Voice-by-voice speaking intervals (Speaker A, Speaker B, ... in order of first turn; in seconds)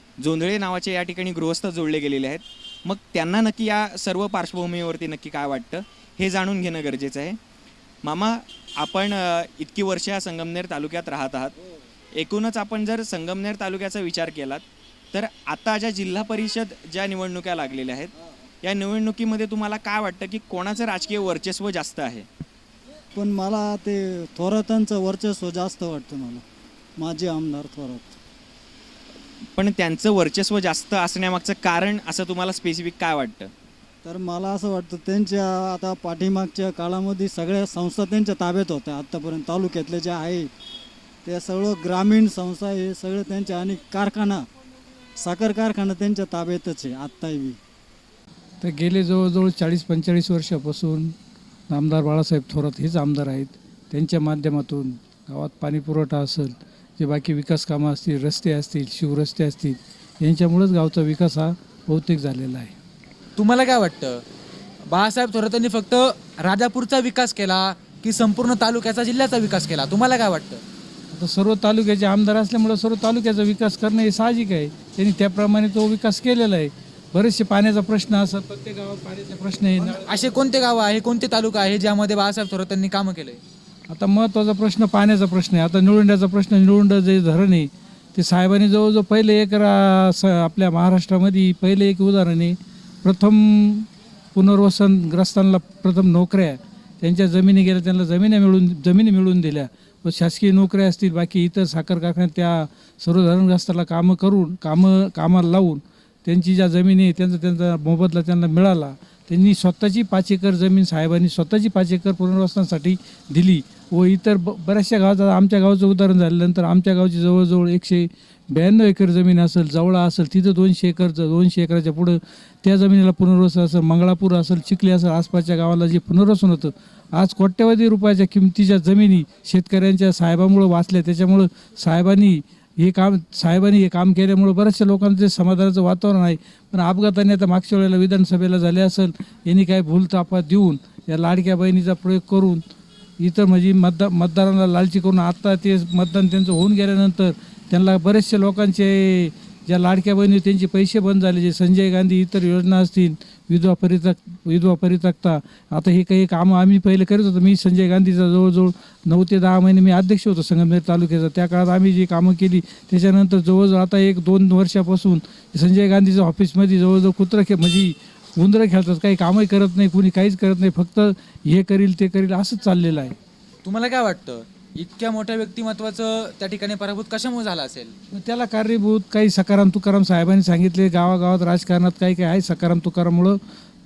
Speaker A: 0.2-7.4, 8.0-11.6, 12.1-22.3, 29.6-33.5
Speaker B: 23.1-26.4, 27.0-28.2, 34.0-40.5, 41.2-44.5, 45.2-47.6
Speaker C: 48.6-51.1, 51.7-62.8, 71.1-80.1, 83.9-142.6, 143.2-173.2, 178.1-183.4
Speaker D: 63.4-64.2, 64.9-70.6, 79.9-83.4, 173.6-177.9